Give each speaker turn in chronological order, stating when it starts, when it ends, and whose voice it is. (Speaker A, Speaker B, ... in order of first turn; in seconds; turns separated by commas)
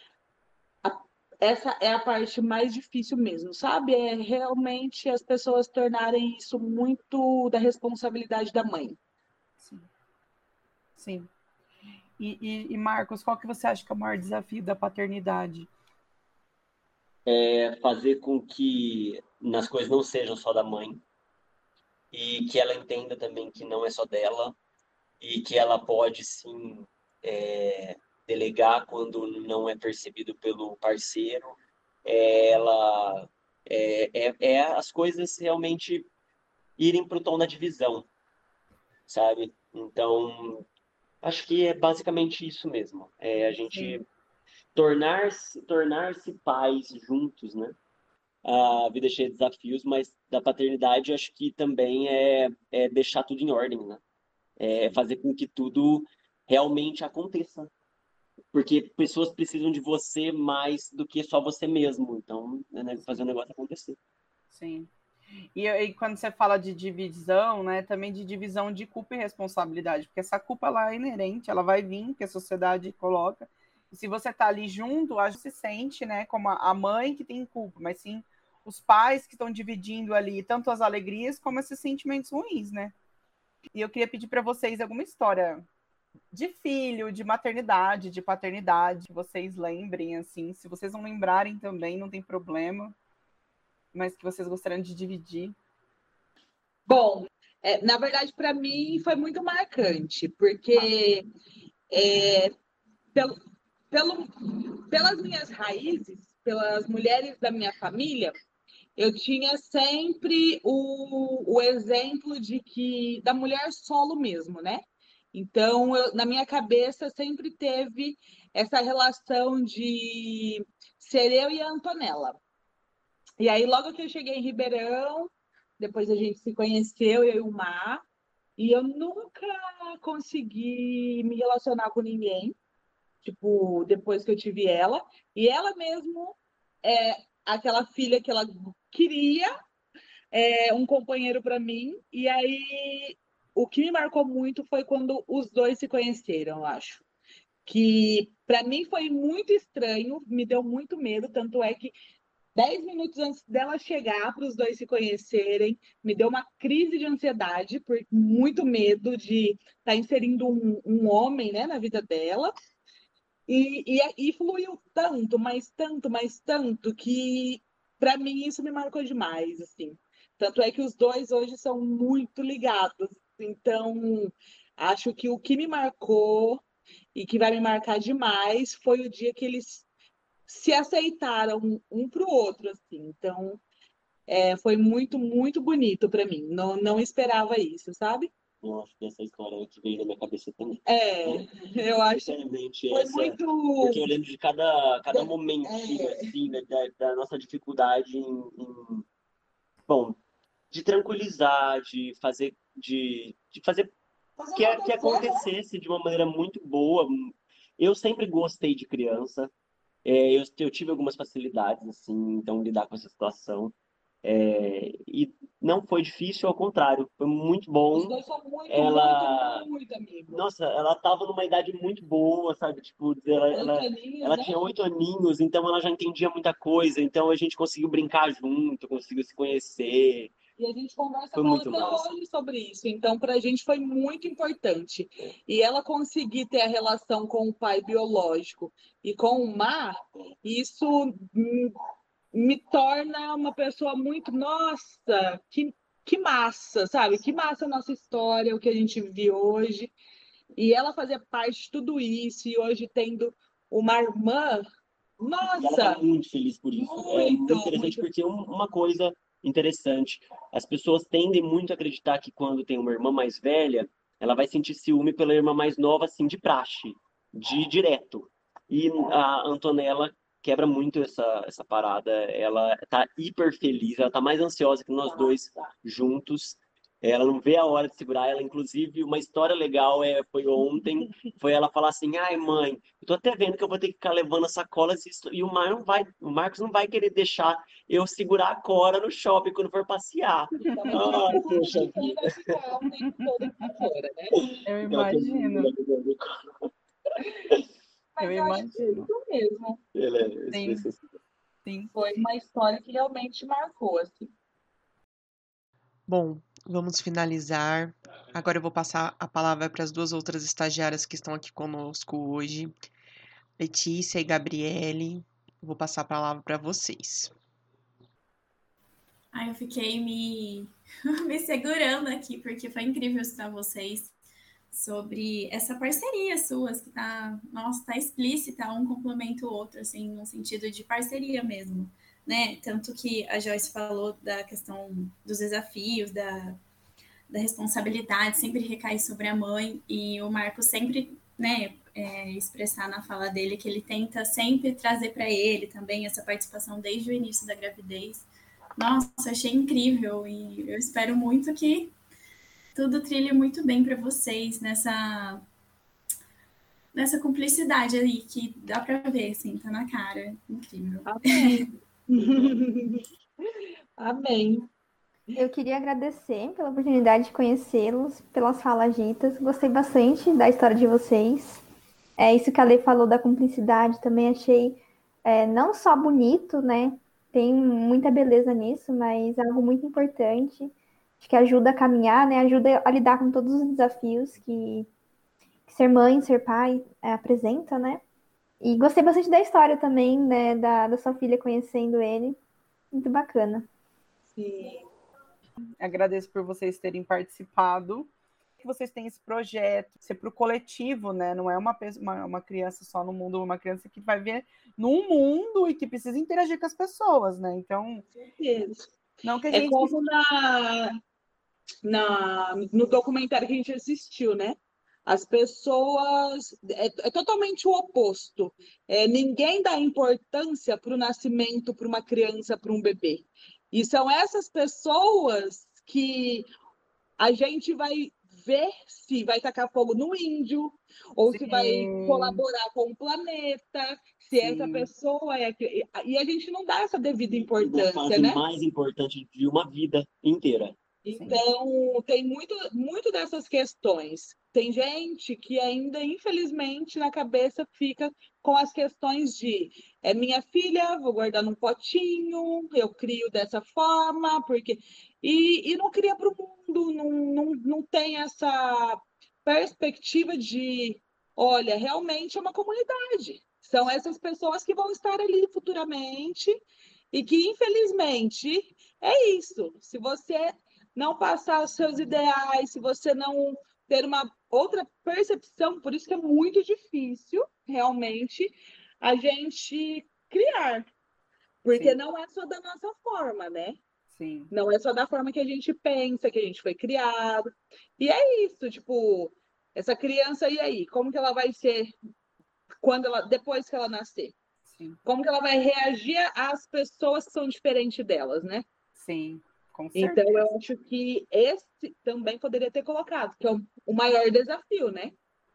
Speaker A: 0.8-9.0, Speaker B: 9.6-9.8, Speaker B: 11.0-11.3, Speaker B: 12.2-15.7, Speaker C: 17.2-21.0, Speaker C: 22.1-24.6, Speaker C: 25.2-36.1, Speaker C: 36.8-38.1, Speaker C: 39.1-40.6, Speaker C: 41.2-44.0, Speaker B: 43.7-44.0, Speaker C: 44.7-47.8, Speaker C: 48.4-54.0, Speaker C: 54.6-57.7, Speaker C: 58.5-64.0, Speaker B: 64.5-64.9, Speaker B: 65.5-82.9, Speaker B: 83.7-85.7, Speaker B: 86.3-93.0, Speaker B: 93.9-95.5, Speaker A: 96.9-101.2, Speaker A: 101.9-102.5, Speaker A: 103.9-108.3, Speaker A: 109.0-114.8, Speaker A: 115.3-122.4, Speaker A: 123.4-128.0, Speaker A: 128.6-132.5, Speaker A: 133.2-139.5, Speaker A: 140.3-147.0, Speaker A: 147.7-151.9, Speaker A: 152.5-162.5, Speaker A: 163.5-176.6, Speaker A: 177.1-179.8, Speaker A: 180.5-183.6, Speaker A: 184.3-188.3, Speaker C: 188.6-191.5, Speaker A: 190.8-192.3, Speaker C: 192.1-199.0, Speaker A: 192.9-194.0, Speaker A: 195.1-196.2, Speaker C: 199.9-200.2, Speaker C: 200.7-203.9, Speaker A: 204.4-205.4, Speaker C: 204.5-209.5, Speaker C: 210.0-218.2, Speaker A: 217.9-220.4, Speaker C: 218.7-219.6, Speaker C: 220.3-230.3, Speaker A: 223.5-224.5, Speaker A: 230.6-241.7, Speaker C: 231.3-232.1, Speaker A: 242.3-249.9, Speaker A: 250.6-254.7, Speaker A: 255.2-256.0, Speaker C: 255.6-292.3, Speaker A: 256.8-258.0, Speaker A: 290.6-294.5, Speaker B: 290.8-291.7, Speaker B: 294.6-295.7, Speaker C: 294.9-296.3, Speaker A: 298.1-299.8, Speaker B: 298.2-299.1, Speaker C: 299.9-301.0, Speaker B: 300.5-300.9, Speaker B: 301.6-301.9, Speaker A: 301.9-304.3, Speaker D: 306.1-312.7, Speaker D: 313.6-317.3, Speaker E: 319.3-324.1, Speaker E: 324.7-336.6, Speaker E: 337.3-351.9, Speaker E: 352.7-355.4, Speaker E: 356.9-361.7, Speaker A: 361.1-363.0, Speaker A: 364.0-364.7, Speaker F: 365.4-371.6, Speaker F: 372.2-384.9, Speaker F: 385.7-388.0, Speaker F: 388.6-392.4, Speaker F: 392.9-393.7, Speaker A: 394.3-394.9, Speaker B: 395.8-398.1, Speaker B: 398.6-408.0, Speaker A: 408.2-408.9, Speaker B: 409.2-409.9, Speaker A: 409.5-410.9, Speaker A: 411.8-426.5, Speaker A: 427.2-438.4, Speaker B: 431.3-432.4, Speaker B: 434.4-434.9, Speaker C: 437.3-440.7, Speaker A: 441.0-466.5, Speaker B: 441.1-441.4, Speaker A: 467.1-480.9, Speaker A: 481.6-483.8, Speaker B: 484.1-484.5, Speaker A: 484.5-491.9, Speaker A: 492.8-494.3, Speaker B: 494.7-495.0, Speaker A: 495.0-498.6, Speaker B: 498.9-500.5, Speaker A: 499.9-505.1